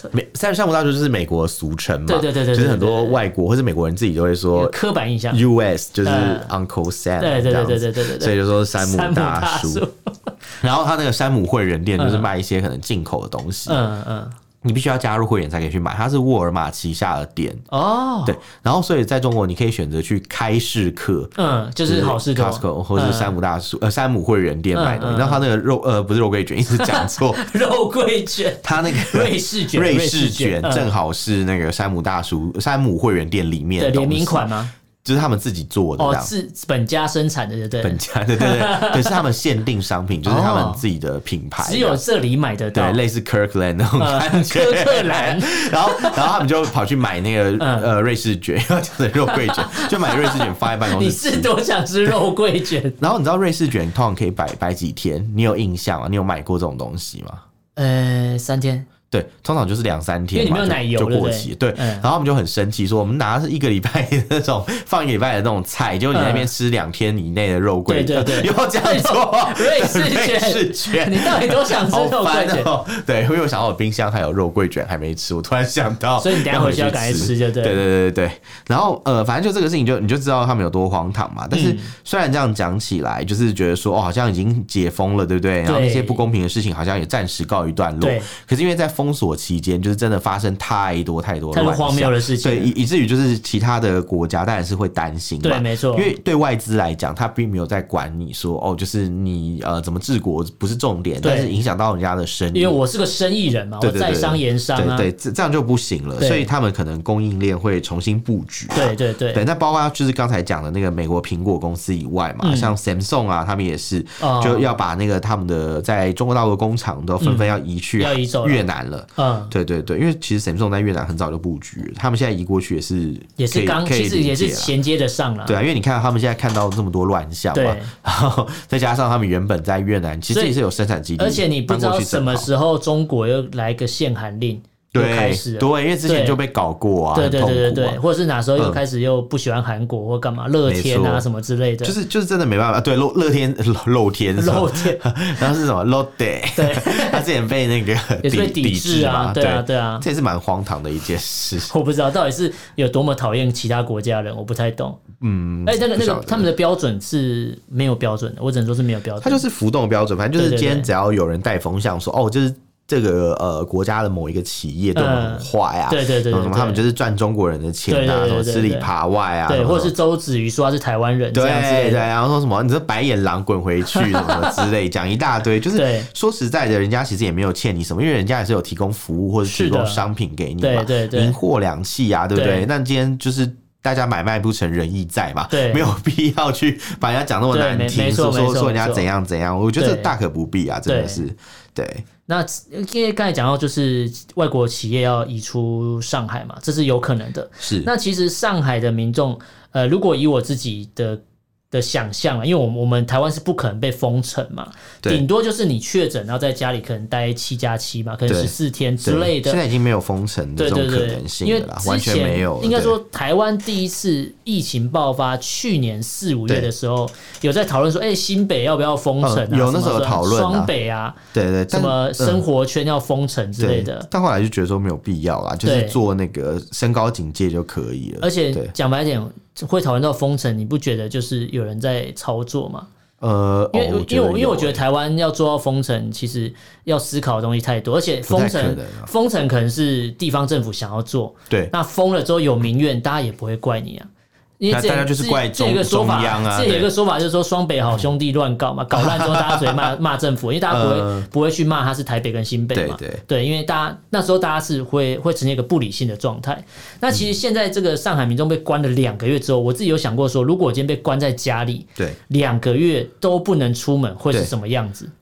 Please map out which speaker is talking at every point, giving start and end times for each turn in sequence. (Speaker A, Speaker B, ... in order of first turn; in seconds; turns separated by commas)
Speaker A: 0.1-4.8, Speaker B: 2.1-3.2, Speaker B: 4.5-5.4, Speaker A: 5.3-9.8, Speaker B: 6.0-6.5, Speaker B: 7.2-10.3, Speaker A: 10.6-13.8, Speaker B: 12.0-12.3, Speaker B: 13.7-14.4, Speaker A: 14.6-17.6, Speaker B: 17.7-18.4, Speaker A: 18.2-21.3, Speaker B: 21.4-23.4, Speaker A: 21.9-27.4, Speaker B: 24.7-25.4, Speaker B: 26.8-30.9, Speaker A: 28.6-36.3, Speaker B: 33.8-34.7, Speaker B: 36.0-39.2, Speaker A: 37.8-42.0, Speaker B: 40.3-40.8, Speaker B: 41.6-43.0, Speaker A: 42.7-51.5, Speaker B: 44.0-46.3, Speaker B: 47.6-47.9, Speaker B: 49.3-53.0, Speaker A: 53.0-57.4, Speaker B: 57.8-58.9, Speaker A: 59.1-102.8, Speaker B: 60.3-62.0, Speaker B: 66.1-66.5, Speaker B: 67.9-72.7, Speaker B: 76.2-77.8, Speaker B: 81.5-81.9, Speaker B: 85.7-86.2, Speaker B: 88.0-88.3, Speaker B: 91.5-92.7, Speaker B: 95.4-96.1, Speaker B: 101.2-101.6, Speaker B: 102.5-105.1, Speaker A: 103.8-124.7, Speaker B: 106.2-106.5, Speaker B: 108.7-109.4, Speaker B: 112.4-112.8, Speaker B: 114.2-114.7, Speaker B: 117.2-118.7, Speaker B: 119.2-119.5, Speaker B: 123.4-125.6, Speaker A: 125.5-132.5, Speaker B: 127.5-127.9, Speaker B: 130.3-130.6, Speaker B: 131.2-136.4, Speaker A: 134.9-138.0, Speaker B: 137.1-141.9, Speaker A: 138.6-138.8, Speaker A: 140.7-141.2, Speaker A: 141.8-151.7, Speaker B: 144.4-145.0, Speaker B: 146.6-147.2, Speaker B: 148.2-150.1, Speaker B: 151.6-155.0, Speaker A: 155.2-156.5, Speaker B: 155.7-159.4, Speaker A: 159.2-169.9, Speaker B: 160.4-160.9, Speaker B: 164.9-166.8, Speaker B: 167.9-168.9, Speaker B: 169.5-172.0, Speaker A: 171.3-192.1, Speaker B: 173.9-174.6, Speaker B: 175.8-176.1, Speaker B: 179.4-180.1, Speaker B: 180.6-181.4, Speaker B: 182.3-182.7, Speaker B: 185.5-185.9, Speaker B: 187.5-189.1, Speaker B: 189.8-190.1, Speaker B: 190.9-191.2, Speaker B: 192.3-201.2, Speaker A: 197.6-197.9, Speaker B: 201.7-209.6, Speaker A: 208.3-213.0, Speaker B: 210.6-221.2, Speaker A: 219.2-220.7, Speaker A: 221.3-222.4, Speaker B: 221.7-224.1, Speaker A: 223.6-228.7, Speaker B: 225.6-226.0, Speaker B: 228.2-232.9, Speaker A: 233.2-234.8, Speaker B: 233.7-244.1, Speaker A: 238.3-239.1, Speaker B: 244.6-265.1, Speaker A: 244.7-246.9, Speaker A: 248.9-249.9, Speaker A: 250.7-251.3, Speaker A: 252.7-253.2